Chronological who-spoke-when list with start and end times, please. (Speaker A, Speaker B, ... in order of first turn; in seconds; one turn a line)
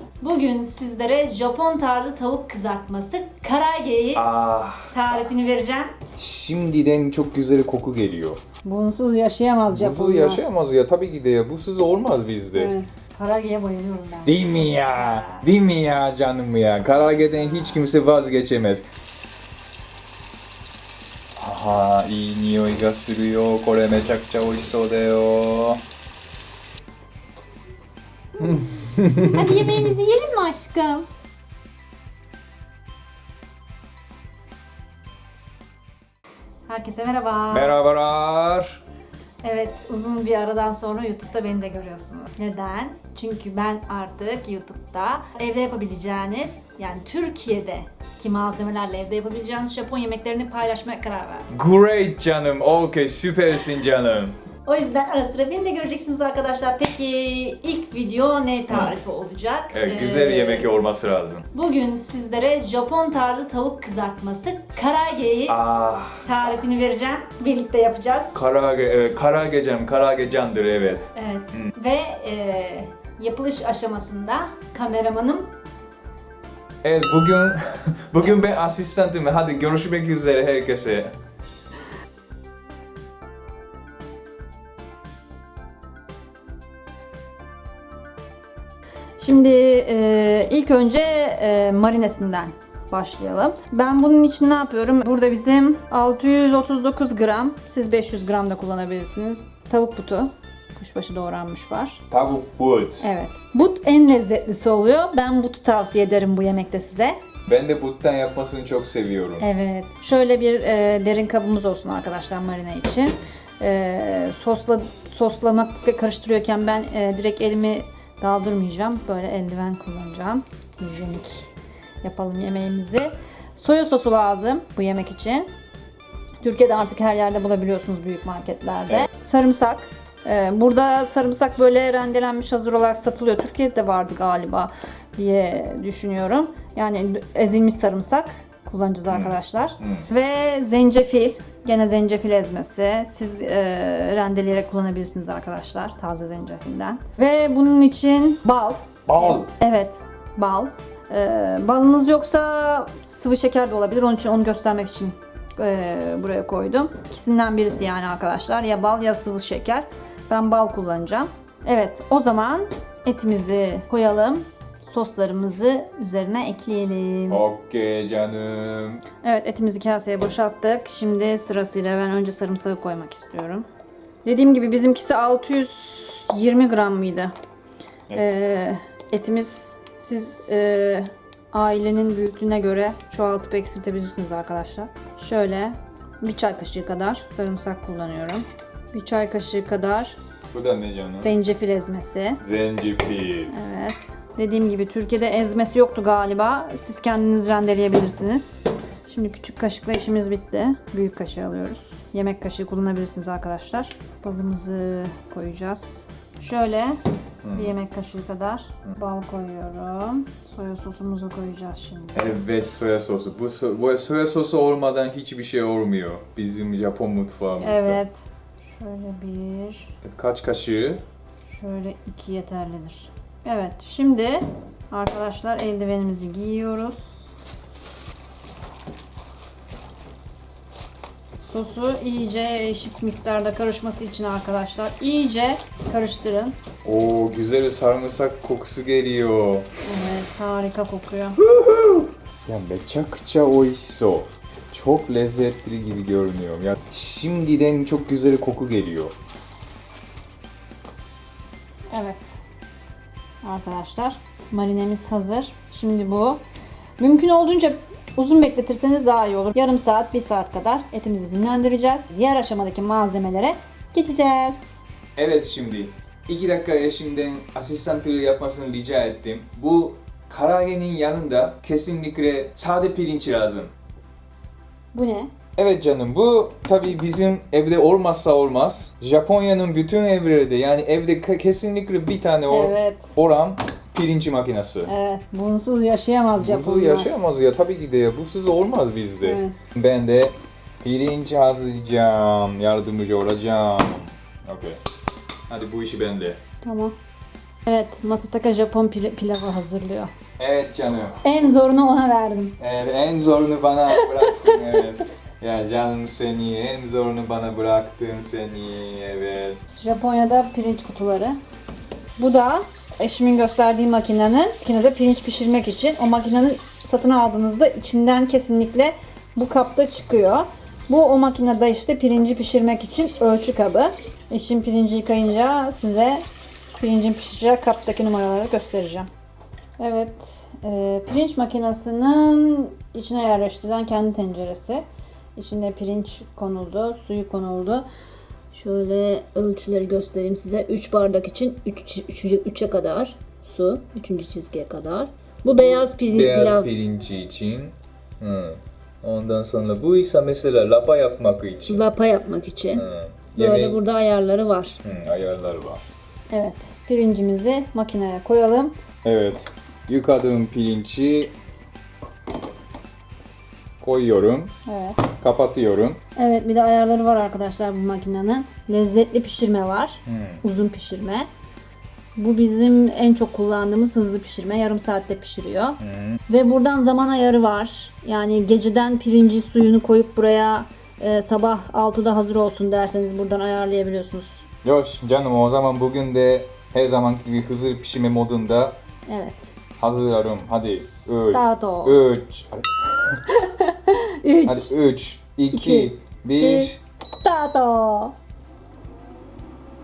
Speaker A: 0.2-4.2
Speaker B: 4.1-5.3
Speaker A: 4.9-6.0
Speaker B: 6.2-8.4
Speaker A: 8.6-10.5
Speaker B: 9.7-12.7
Speaker A: 12.5-15.5
Speaker B: 14.2-18.9
Speaker B: 21.4-25.8
Speaker B: 28.4-29.9
Speaker A: 29.3-31.1
Speaker A: 36.6-37.8
Speaker B: 37.5-38.8
Speaker A: 39.4-51.5
Speaker B: 51.5-54.4
Speaker A: 54.6-60.7
Speaker B: 58.7-59.0
Speaker B: 59.7-61.5
Speaker A: 61.5-65.6
Speaker B: 65.5-66.5
Speaker A: 66.2-68.4
Speaker B: 68.3-71.7
Speaker A: 71.1-75.5
Speaker B: 76.8-81.1
Speaker A: 89.2-102.0
Speaker B: 102.1-103.1
Speaker A: 103.0-107.2
Speaker B: 107.5-109.5
Speaker A: 109.4-121.5
Speaker A: 122.0-125.5
Speaker A: 126.4-167.4
Speaker B: 139.1-140.1
Speaker B: 149.1-149.5
Speaker B: 167.3-169.0
Speaker A: 169.2-173.7
Speaker A: 174.2-177.3
Speaker A: 178.1-190.2
Speaker B: 190.5-191.3
Speaker A: 191.2-192.4
Speaker B: 192.4-193.5
Speaker A: 193.5-207.0
Speaker B: 207.4-207.8
Speaker A: 207.5-212.3
Speaker B: 212.1-218.0
Speaker A: 217.6-219.9
Speaker B: 220.0-221.0
Speaker A: 221.5-227.3
Speaker A: 231.4-236.6
Speaker B: 236.8-239.7
Speaker A: 239.8-241.4
Speaker B: 241.4-249.1
Speaker A: 251.9-252.4
Speaker A: 253.4-256.4
Speaker A: 257.0-264.8
Speaker B: 265.1-273.7
Speaker A: 274.9-275.3
Speaker B: 275.6-284.9
Speaker A: 282.5-283.1
Speaker A: 284.9-287.1
Speaker B: 286.4-294.8
Speaker A: 289.2-289.6
Speaker B: 295.5-296.4
Speaker A: 296.6-296.9
Speaker A: 297.6-300.1
Speaker B: 300.4-301.4
Speaker A: 301.2-302.6
Speaker B: 302.6-309.6
Speaker A: 304.0-304.6
Speaker A: 309.8-311.4
Speaker A: 312.2-326.2
Speaker A: 326.7-329.1
Speaker A: 329.8-334.8
Speaker A: 335.4-337.9
Speaker A: 338.5-346.7
Speaker B: 345.7-351.8
Speaker A: 351.7-354.8
Speaker B: 352.7-353.8
Speaker B: 354.8-355.8
Speaker A: 356.3-358.8
Speaker B: 359.0-361.3
Speaker B: 363.8-364.5
Speaker A: 364.6-365.1
Speaker B: 365.1-366.0
Speaker A: 366.1-371.3
Speaker B: 370.1-370.4
Speaker A: 372.1-384.4
Speaker B: 375.8-376.2
Speaker B: 384.6-388.8
Speaker A: 389.1-389.5
Speaker B: 389.8-393.2
Speaker A: 391.1-392.0
Speaker A: 393.3-394.8
Speaker B: 394.4-396.8
Speaker A: 395.5-398.1